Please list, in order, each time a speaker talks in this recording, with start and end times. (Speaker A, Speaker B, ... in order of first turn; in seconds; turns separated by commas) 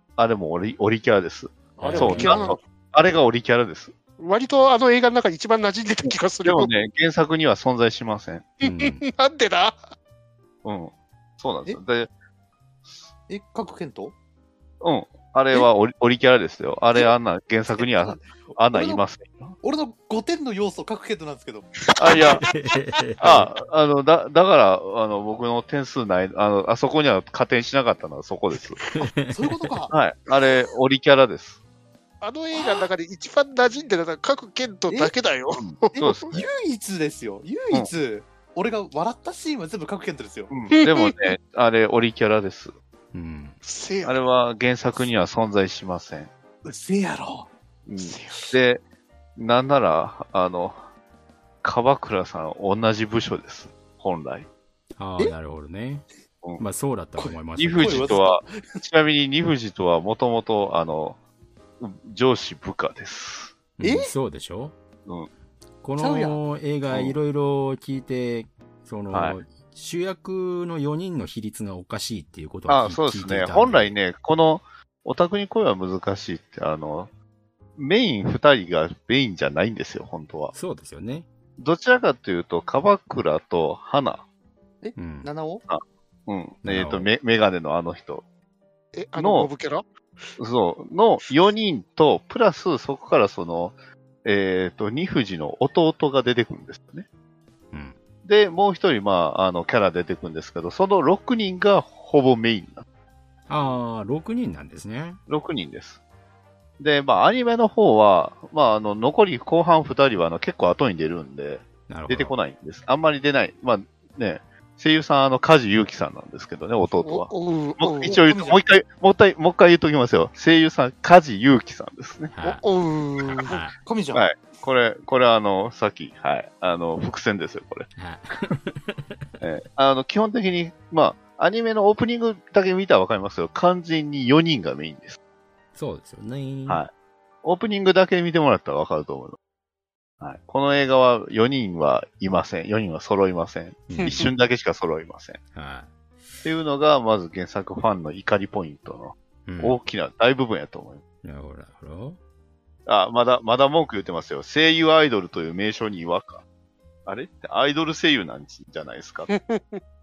Speaker A: 0.2-3.9, Speaker B: 1.8-2.6, Speaker C: 1.8-2.5, Speaker B: 4.2-6.7, Speaker A: 6.0-8.5, Speaker B: 8.6-9.8, Speaker C: 8.6-9.0, Speaker A: 10.6-12.1, Speaker D: 13.3-14.1, Speaker A: 14.8-19.6, Speaker D: 17.8-19.0, Speaker D: 19.6-21.7, Speaker B: 21.9-22.7, Speaker A: 22.0-22.4, Speaker C: 22.5-23.5, Speaker A: 23.2-28.8, Speaker B: 28.8-29.1, Speaker C: 28.9-29.7, Speaker D: 29.3-29.9, Speaker A: 29.9-31.6, Speaker B: 32.2-36.0, Speaker D: 32.5-32.8, Speaker A: 35.6-36.5, Speaker D: 35.9-40.5, Speaker A: 40.5-42.7, Speaker B: 40.8-41.1, Speaker C: 43.1-43.6, Speaker B: 43.6-44.2, Speaker A: 44.0-46.3, Speaker D: 46.6-47.5, Speaker A: 47.9-48.8, Speaker B: 48.0-48.5, Speaker A: 49.4-50.8, Speaker A: 51.6-54.5, Speaker C: 55.0-56.0, Speaker C: 56.6-58.2, Speaker D: 57.2-58.8, Speaker A: 57.5-61.2, Speaker A: 61.8-63.5, Speaker C: 63.8-64.7, Speaker D: 63.8-64.1, Speaker C: 65.8-74.0, Speaker D: 66.0-66.4, Speaker A: 66.9-67.2, Speaker A: 69.1-69.4, Speaker A: 72.7-77.1, Speaker A: 77.8-80.5, Speaker C: 80.5-81.3, Speaker A: 81.6-84.2, Speaker D: 84.8-85.6, Speaker C: 85.0-85.3, Speaker A: 85.7-88.2, Speaker C: 86.6-87.1, Speaker B: 88.9-89.8, Speaker A: 89.2-89.5, Speaker A: 90.4-97.1, Speaker C: 97.7-98.0, Speaker A: 98.2-102.8, Speaker C: 103.5-105.2, Speaker A: 105.3-106.0, Speaker A: 106.8-122.3, Speaker C: 111.9-112.3, Speaker B: 117.0-118.2, Speaker D: 118.0-118.7, Speaker C: 122.3-122.7, Speaker B: 122.4-123.5, Speaker C: 123.2-123.8, Speaker D: 123.8-124.3, Speaker A: 124.1-127.9, Speaker C: 128.0-129.3, Speaker A: 129.4-135.2, Speaker C: 135.7-136.8, Speaker A: 137.4-139.4, Speaker A: 140.2-145.4, Speaker C: 143.9-144.2, Speaker B: 144.0-144.3, Speaker C: 145.5-145.9, Speaker A: 146.4-151.0, Speaker C: 149.4-149.8, Speaker C: 151.2-152.2, Speaker A: 152.8-156.4, Speaker A: 157.1-159.3, Speaker B: 159.3-159.8